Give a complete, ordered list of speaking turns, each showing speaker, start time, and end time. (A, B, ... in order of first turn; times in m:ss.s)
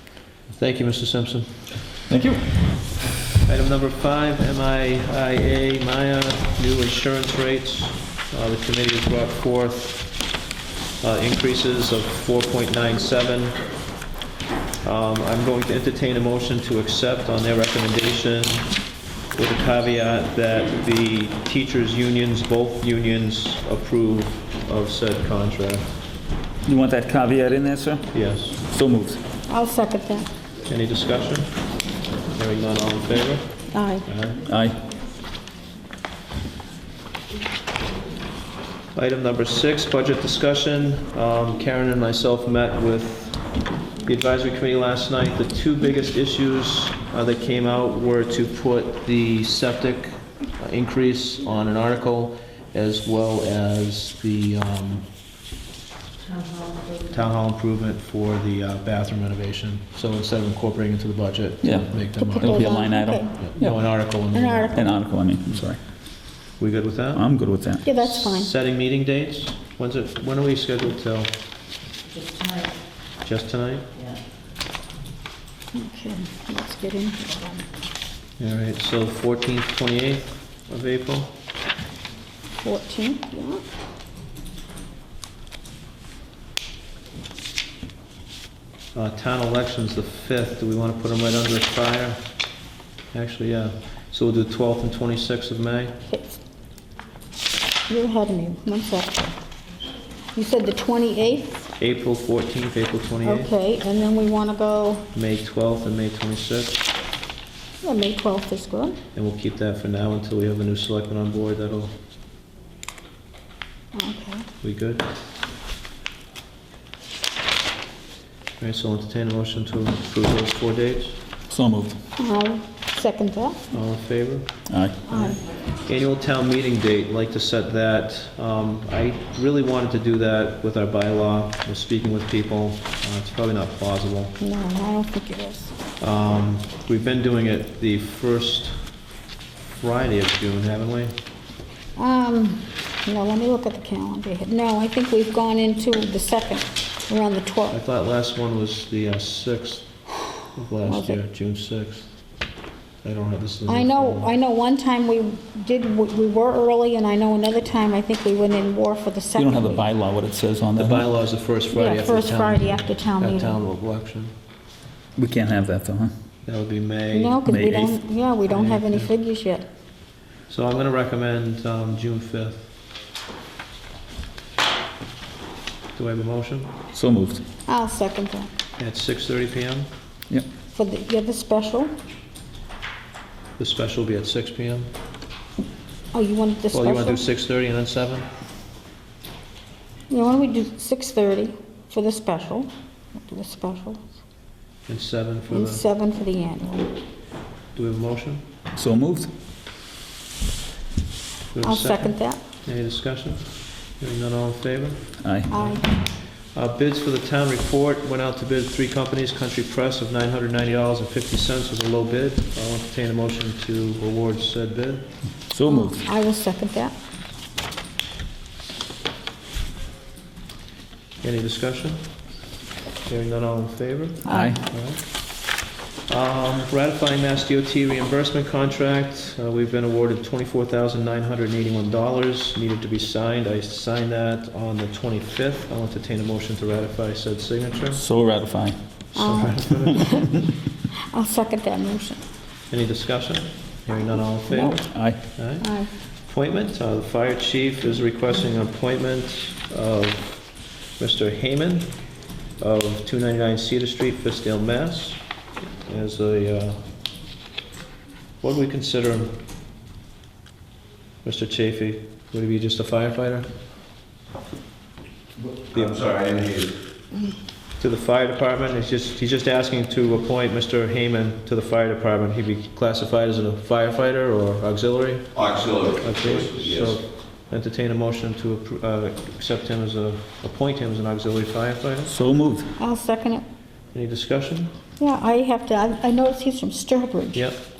0:00.5-0:01.7 A
0:02.1-0:02.4 B
0:03.4-0:10.3 A
0:11.0-0:13.6 A
0:14.8-0:18.7 A
0:19.3-0:25.9 A
0:26.6-0:28.0 B
0:28.1-0:28.6 A
0:28.6-0:29.2 B
0:29.5-0:30.3 C
0:30.7-0:31.5 A
0:32.3-0:33.5 A
0:33.7-0:34.0 C
0:34.0-0:34.4 A
0:34.5-0:34.8 B
0:38.9-0:43.5 A
0:44.0-0:55.0 A
0:57.1-1:02.6 A
1:01.6-1:03.8 B
1:02.2-1:03.5 C
1:03.4-1:04.7 A
1:04.2-1:04.9 C
1:04.7-1:05.8 B
1:06.6-1:07.3 A
1:07.1-1:07.8 B
1:07.8-1:08.5 C
1:07.8-1:11.3 A
1:13.2-1:13.9 A
1:15.7-1:17.7 C
1:18.4-1:21.3 A
1:22.6-1:23.6 C
1:28.9-1:32.2 A
1:33.1-1:36.0 A
1:36.1-1:36.4 C
1:37.9-1:39.4 C
1:40.3-1:41.6 C
1:41.8-1:43.5 A
1:43.2-1:45.1 C
1:45.1-1:46.9 A
1:47.8-1:49.0 C
1:49.1-1:51.9 A
1:53.9-1:54.5 C
1:54.6-1:55.0 A
1:58.6-2:01.2 A
2:01.5-2:01.9 B
2:02.2-2:03.6 C
2:03.7-2:04.5 A
2:04.7-2:05.0 B
2:05.1-2:05.4 C
2:05.8-2:14.3 A
2:14.4-2:15.7 C
2:16.0-2:18.8 A
2:19.8-2:21.1 A
2:22.0-2:27.8 C
2:27.7-2:29.9 A
2:30.5-2:32.1 A
2:30.8-2:31.2 C
2:33.0-2:34.3 A
2:33.6-2:39.8 C
2:39.4-2:41.0 B
2:40.8-2:44.3 A
2:41.7-2:43.5 C
2:45.2-2:46.1 B
2:46.4-2:47.4 A
2:47.1-2:49.6 C
2:47.4-2:48.0 B
2:48.4-2:49.1 A
2:50.5-2:52.6 A
2:56.0-2:56.7 A
2:56.9-2:57.4 B
2:57.7-2:58.5 C
2:58.8-2:59.9 A
3:00.7-3:01.9 C
3:03.6-3:04.9 A
3:06.1-3:07.2 C
3:06.7-3:08.3 A
3:10.1-3:14.0 C
3:14.9-3:15.8 A
3:15.5-3:16.9 C
3:17.7-3:18.4 A
3:18.7-3:19.3 B
3:21.5-3:25.8 A
3:21.6-3:22.4 C
3:25.2-3:25.5 B
3:25.5-3:25.8 C
3:26.5-3:35.1 A
3:35.5-3:36.0 B
3:35.6-3:36.9 C
3:41.2-3:42.0 A
3:43.0-3:45.0 A
3:44.2-3:44.5 C
3:44.2-3:44.6 B
3:46.1-3:58.0 A
3:57.9-3:58.8 B
3:59.1-4:00.3 A
3:59.2-4:00.4 C
4:01.1-4:02.2 C
4:02.7-4:05.7 A
4:04.5-4:05.2 B
4:05.6-4:05.9 C
4:06.2-4:11.9 A
4:12.6-4:15.2 A
4:15.8-4:16.8 A
4:18.4-4:19.3 A
4:21.2-4:23.5 A
4:25.7-4:26.7 D
4:25.7-4:26.4 A
4:27.8-4:42.1 A
4:35.4-4:37.0 D
4:42.1-4:42.7 B
4:42.8-4:43.4 C
4:43.9-4:44.7 A
4:45.0-4:47.5 C